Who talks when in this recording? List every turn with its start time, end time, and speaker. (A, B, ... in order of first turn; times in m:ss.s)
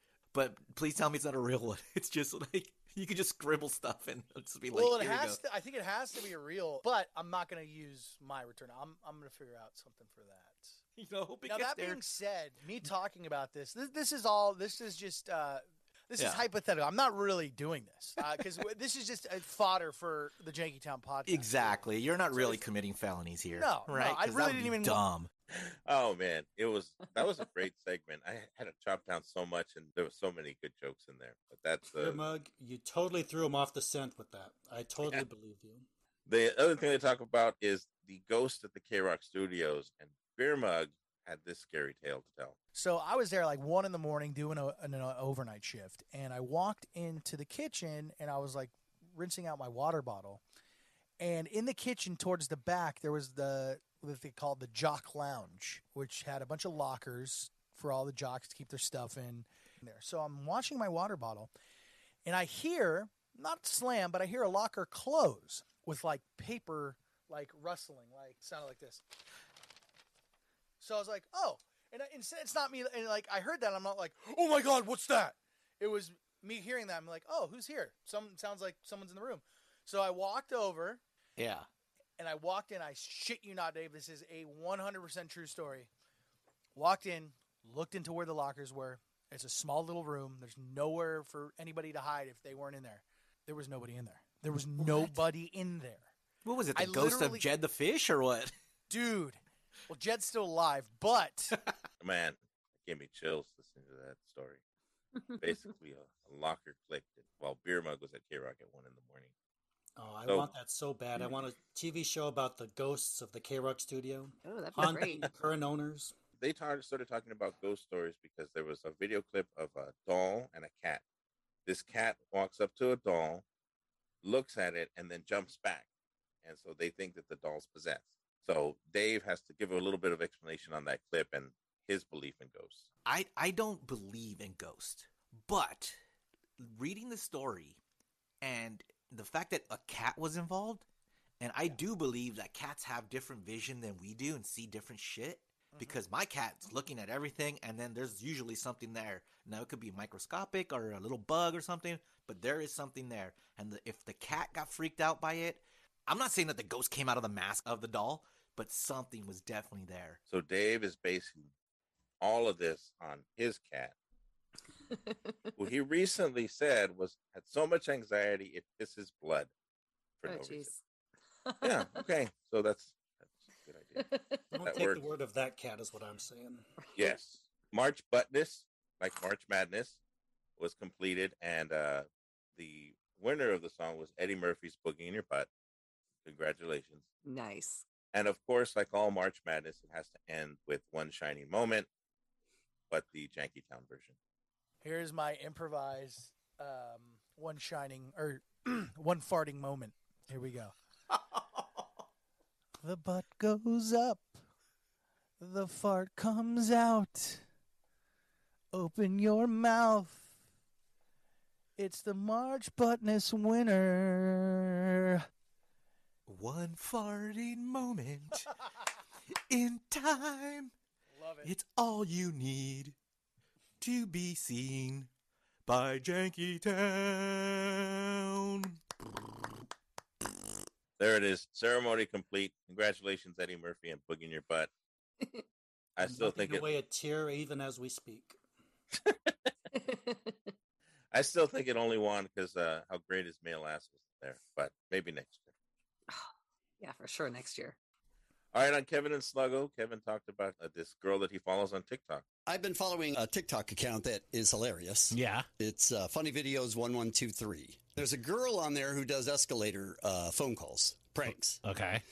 0:00.3-0:05.4 A
0:04.7-0:10.8 B
0:11.0-0:12.0 A
0:11.4-0:21.7 B
0:16.2-0:16.4 A
0:21.2-0:25.3 A
0:22.3-0:22.6 B
0:23.6-0:25.0 B
0:25.5-0:32.2 C
0:31.9-0:35.8 D
0:36.3-0:42.6 C
0:42.7-0:50.4 B
0:51.2-1:01.5 B
1:02.2-1:09.0 B
1:10.8-1:21.0 B
1:21.4-1:21.6 A
1:22.2-1:25.9 B
1:26.8-1:36.1 B
1:36.4-1:38.5 A
1:36.8-1:37.4 B
1:38.9-1:41.6 B
1:42.0-1:44.6 C
1:45.4-1:49.3 C
1:50.0-1:56.1 D
1:50.2-1:50.5 C
1:54.4-1:55.3 E
1:56.4-2:01.0 C
2:01.6-2:03.4 C
2:04.2-2:05.9 C
2:06.4-2:12.9 C
2:13.0-2:16.0 A
2:16.6-2:17.8 A
2:18.4-2:20.8 A
2:21.4-2:40.2 A
2:25.7-2:26.0 B
2:40.3-2:41.5 C
2:42.2-2:43.9 C
2:45.6-2:49.5 C
2:50.2-2:50.7 C
2:50.2-2:50.8 E
2:51.4-2:51.7 E
2:51.6-2:54.0 C
2:54.0-2:54.4 E
2:54.5-2:56.6 D
2:54.6-2:55.1 C
2:56.8-2:57.1 E
2:57.0-3:00.0 C
3:00.6-3:05.5 C
3:06.2-3:07.0 C
3:07.2-3:07.8 E
3:08.1-3:11.9 C
3:12.9-3:14.2 C
3:14.8-3:20.7 B
3:22.8-3:24.3 B
3:25.4-3:27.4 B
3:28.7-3:30.2 B
3:31.8-3:35.2 B
3:36.3-3:38.5 A
3:39.5-3:40.7 A
3:41.1-3:41.5 B
3:41.4-3:42.9 A
3:43.8-3:45.1 A
3:45.6-3:48.8 A
3:51.0-3:54.7 C
3:56.0-3:56.7 C
3:56.0-3:58.4 D
3:59.7-4:00.4 E
4:01.1-4:05.5 C
4:06.8-4:07.7 E
4:08.5-4:12.2 C
4:12.5-4:21.6 F